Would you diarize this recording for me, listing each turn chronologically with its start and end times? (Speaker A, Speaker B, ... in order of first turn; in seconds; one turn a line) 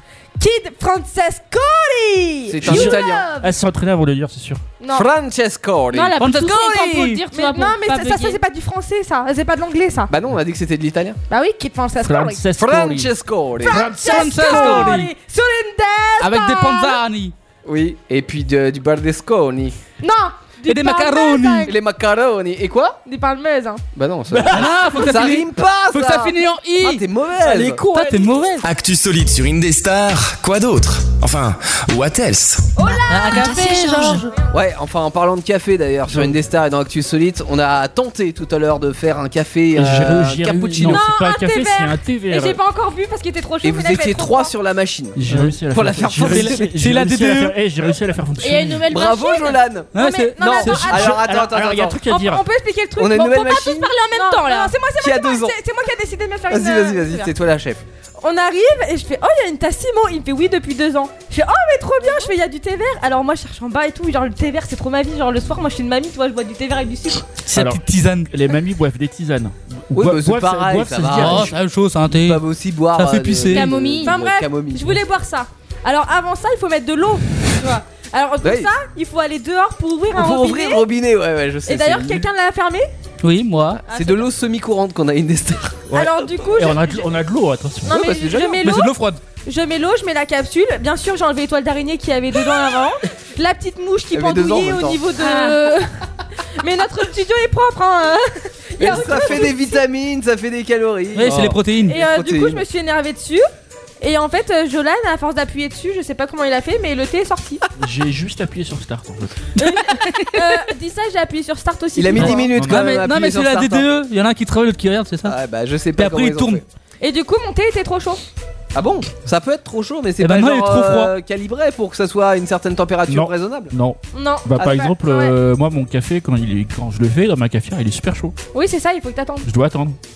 Speaker A: 0.4-3.5
Speaker B: 2.5-3.3
Speaker C: 2.6-4.6
Speaker A: 4.8-5.1
Speaker B: 4.9-6.2
Speaker D: 5.9-8.4
Speaker E: 6.2-7.2
Speaker A: 7.3-10.1
Speaker B: 10.1-11.2
Speaker A: 11.3-12.4
Speaker C: 12.0-13.1
Speaker B: 12.6-13.9
Speaker A: 13.6-17.0
Speaker C: 13.7-15.1
Speaker E: 13.9-15.1
Speaker E: 16.2-17.3
Speaker B: 17.6-19.8
Speaker A: 20.0-21.7
Speaker E: 20.6-21.7
Speaker B: 21.6-23.0
Speaker A: 23.1-23.8
Speaker B: 23.9-27.8
Speaker C: 24.3-24.7
Speaker E: 24.4-28.6
Speaker C: 27.4-28.4
Speaker F: 28.6-32.7
Speaker A: 32.8-34.4
Speaker E: 33.1-34.3
Speaker D: 33.3-34.2
Speaker B: 34.5-41.0
Speaker C: 36.1-36.4
Speaker C: 39.8-42.6
Speaker A: 40.8-44.5
Speaker B: 43.6-46.7
Speaker C: 45.2-48.9
Speaker E: 46.2-47.6
Speaker D: 48.4-49.6
Speaker B: 48.9-52.0
Speaker E: 49.9-50.9
Speaker A: 49.9-51.1
Speaker C: 50.6-52.5
Speaker A: 52.1-53.6
Speaker B: 53.0-53.9
Speaker D: 53.2-54.8
Speaker A: 54.1-57.3
Speaker B: 55.0-55.6
Speaker B: 56.5-57.8
Speaker A: 58.2-67.3
Speaker E: 67.5-68.3
Speaker C: 67.5-71.5
Speaker B: 69.9-71.5
Speaker E: 71.1-72.4
Speaker B: 72.1-75.0
Speaker E: 72.9-73.7
Speaker D: 73.5-74.2
Speaker A: 74.0-80.9
Speaker B: 78.4-78.7
Speaker B: 80.1-82.2
Speaker A: 81.7-82.9
Speaker E: 83.2-83.8
Speaker B: 83.8-85.8
Speaker A: 83.9-84.3
Speaker C: 85.9-88.2
Speaker A: 85.9-87.0
Speaker B: 87.8-88.7
Speaker A: 87.9-96.0
Speaker E: 88.6-89.2
Speaker B: 94.1-95.0
Speaker D: 95.2-95.6
Speaker A: 96.6-99.8
Speaker B: 98.8-102.6
Speaker E: 101.1-102.0
Speaker C: 101.3-101.6
Speaker A: 101.9-103.5
Speaker A: 104.0-107.6
Speaker C: 107.8-109.5
Speaker A: 109.6-112.5
Speaker E: 109.7-110.5
Speaker B: 112.0-113.9
Speaker C: 112.2-113.0
Speaker E: 112.6-115.4
Speaker B: 115.2-116.6
Speaker E: 116.0-116.6
Speaker A: 117.0-118.2
Speaker B: 118.8-123.7
Speaker E: 120.2-121.2
Speaker C: 123.1-128.3
Speaker A: 124.1-125.3
Speaker A: 128.5-129.5
Speaker C: 129.4-130.0